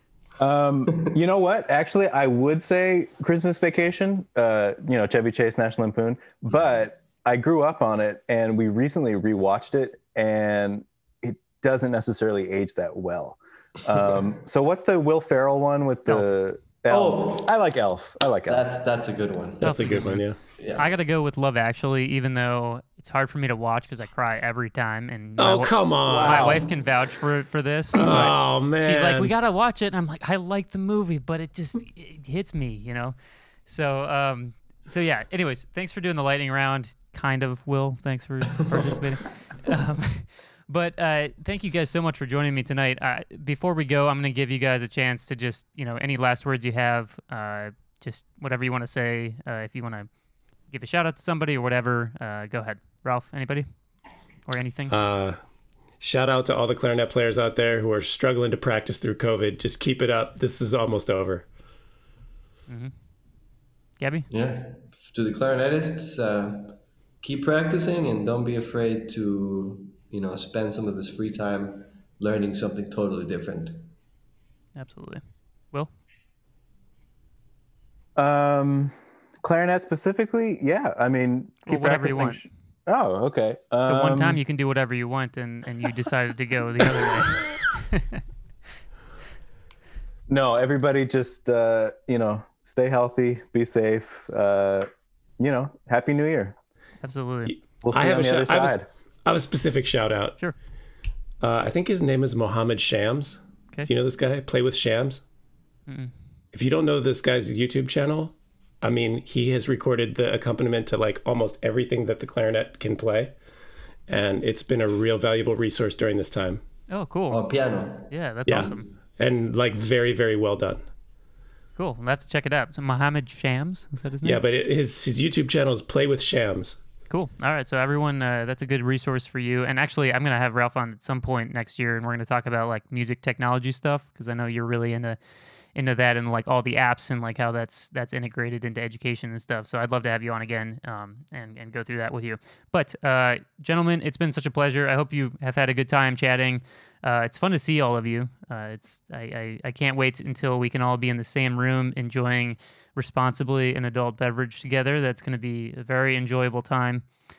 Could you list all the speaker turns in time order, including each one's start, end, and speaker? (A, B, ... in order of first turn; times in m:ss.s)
0:00.4-0:18.6 A
0:16.9-0:17.5 B
0:18.5-0:20.0 B
0:19.6-0:20.4 C
0:19.6-0:50.1 D
0:20.6-0:20.9 B
0:25.4-0:26.6 C
0:26.0-0:26.6 A
0:27.9-0:29.3 C
0:50.7-0:53.7 D
0:54.4-0:54.9 D
0:54.9-0:55.4 C
0:56.0-1:01.5 C
1:02.7-1:02.9 D
1:04.0-1:04.3 D
1:04.3-1:13.9 B
1:14.8-1:15.9 D
1:18.2-1:24.4 A
1:21.6-1:22.4 D
1:23.9-1:28.2 D
1:30.3-1:34.9 A
1:35.4-1:36.6 A
1:37.0-1:37.5 D
1:37.8-1:38.8 A
1:37.9-1:40.4 C
1:41.4-1:45.2 C
1:45.9-1:46.1 D
1:46.5-1:53.3 C
1:54.1-1:56.6 C
1:56.9-1:57.4 D
1:57.3-1:58.7 B
1:58.1-1:58.9 D
1:58.4-2:00.8 C
2:01.8-2:04.4 D
2:04.2-2:06.8 C
2:07.1-2:15.2 D
2:15.7-2:37.1 D